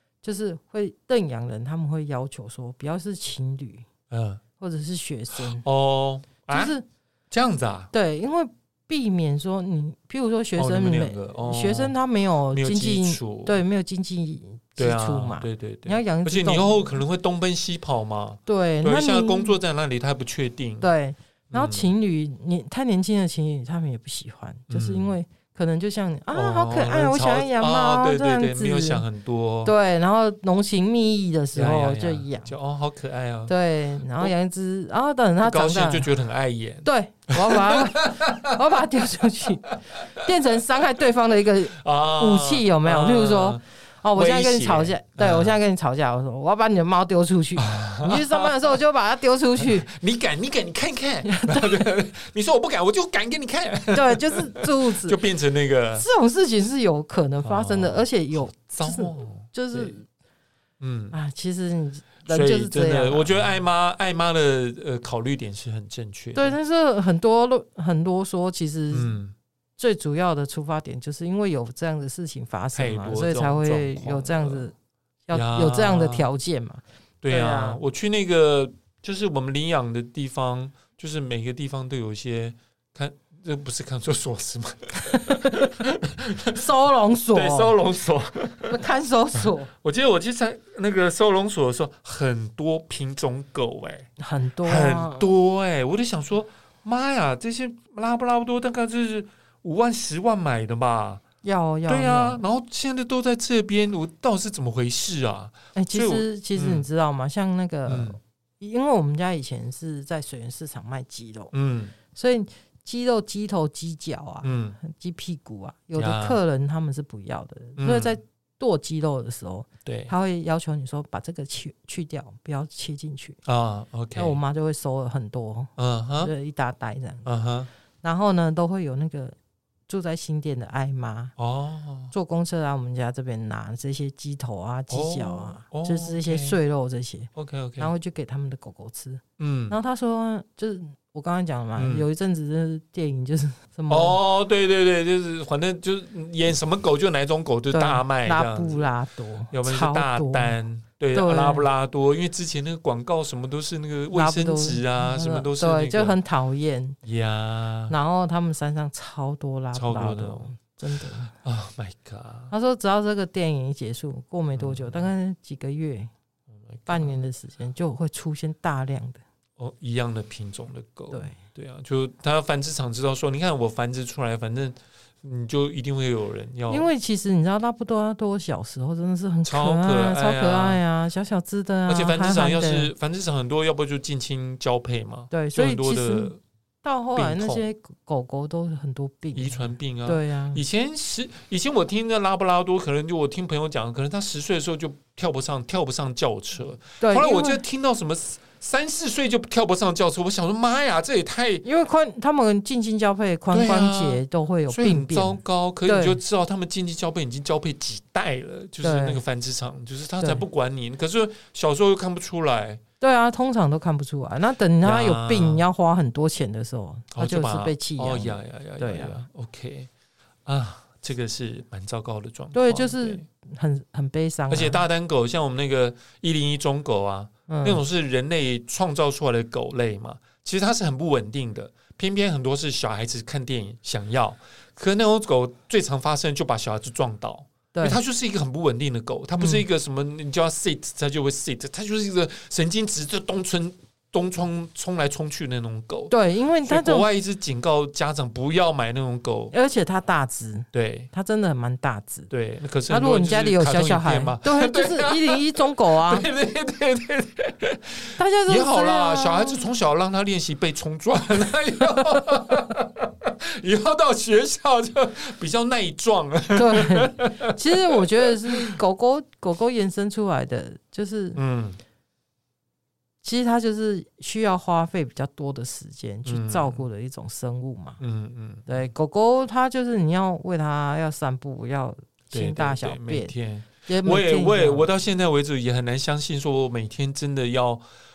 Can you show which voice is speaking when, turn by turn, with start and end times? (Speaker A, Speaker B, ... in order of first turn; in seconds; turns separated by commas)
Speaker A: 0.2-3.9, Speaker B: 4.1-4.4, Speaker A: 4.6-5.7, Speaker B: 5.4-6.7, Speaker A: 6.5-6.8, Speaker B: 7.3-7.9, Speaker A: 7.9-16.9, Speaker B: 10.6-11.9, Speaker B: 12.5-13.6, Speaker B: 14.8-20.9, Speaker A: 18.4-19.6, Speaker A: 20.8-29.0, Speaker B: 21.5-21.9, Speaker B: 24.7-25.1, Speaker B: 26.3-29.7, Speaker A: 29.6-32.5, Speaker B: 31.5-33.5, Speaker A: 33.5-36.1, Speaker B: 35.4-38.5, Speaker A: 36.8-49.9, Speaker B: 41.7-43.6, Speaker B: 44.1-45.6, Speaker B: 47.6-48.7, Speaker B: 49.6-56.0, Speaker A: 51.2-51.9, Speaker A: 53.9-55.2, Speaker A: 56.0-60.0, Speaker B: 57.4-60.0, Speaker B: 60.8-61.1, Speaker A: 61.1-63.5, Speaker B: 62.3-66.5, Speaker A: 66.3-69.1, Speaker B: 68.9-69.3, Speaker A: 69.8-74.7, Speaker B: 72.7-74.7, Speaker A: 75.3-77.8, Speaker B: 75.3-76.3, Speaker B: 77.2-86.7, Speaker A: 85.1-85.6, Speaker A: 86.5-87.8, Speaker B: 87.3-88.8, Speaker A: 88.7-89.7, Speaker B: 89.4-94.1, Speaker A: 94.2-95.3, Speaker B: 94.6-101.2, Speaker A: 101.4-102.4, Speaker B: 101.9-106.8, Speaker A: 105.7-111.5, Speaker B: 107.8-108.2, Speaker B: 111.5-111.9, Speaker A: 112.1-123.4, Speaker B: 114.4-114.8, Speaker B: 115.9-116.4, Speaker B: 117.8-118.2, Speaker B: 119.8-120.1, Speaker B: 123.5-124.4, Speaker A: 124.2-127.2, Speaker B: 125.8-126.3, Speaker B: 127.2-127.7, Speaker A: 128.0-129.3, Speaker A: 129.9-131.3, Speaker B: 131.4-132.1, Speaker A: 132.1-144.2, Speaker B: 134.9-136.6, Speaker B: 137.3-137.9, Speaker B: 139.4-139.8, Speaker B: 141.8-142.1, Speaker B: 143.9-148.9, Speaker A: 147.7-150.6, Speaker B: 149.5-156.2, Speaker A: 151.1-151.7, Speaker A: 154.1-157.0, Speaker B: 157.0-157.9, Speaker A: 157.9-161.3, Speaker B: 159.7-160.5, Speaker B: 161.3-162.5, Speaker A: 162.5-166.1, Speaker B: 164.5-165.1, Speaker B: 166.7-167.2, Speaker A: 166.9-169.2, Speaker B: 169.6-176.9, Speaker A: 171.1-171.4, Speaker A: 176.7-182.9, Speaker B: 179.4-180.8, Speaker B: 181.9-186.4, Speaker A: 185.3-190.6, Speaker B: 187.1-187.6, Speaker B: 189.3-201.6, Speaker A: 197.0-197.6, Speaker A: 201.6-206.2, Speaker B: 203.5-212.8, Speaker A: 208.8-209.2, Speaker A: 213.0-219.2, Speaker B: 214.8-215.6, Speaker B: 217.1-219.9, Speaker B: 220.4-223.2, Speaker A: 222.5-224.8, Speaker B: 224.5-246.1, Speaker A: 227.5-227.8, Speaker A: 237.7-238.0, Speaker A: 239.4-239.6, Speaker A: 246.1-247.1, Speaker B: 246.6-249.5, Speaker A: 249.5-252.3, Speaker B: 250.7-251.1, Speaker B: 252.3-268.7, Speaker A: 252.9-256.3, Speaker A: 258.2-259.6, Speaker A: 266.5-271.4, Speaker B: 271.4-271.8, Speaker A: 273.2-278.0, Speaker B: 276.2-276.8, Speaker B: 278.0-278.9, Speaker A: 278.6-283.3, Speaker B: 282.3-287.8, Speaker A: 283.8-284.9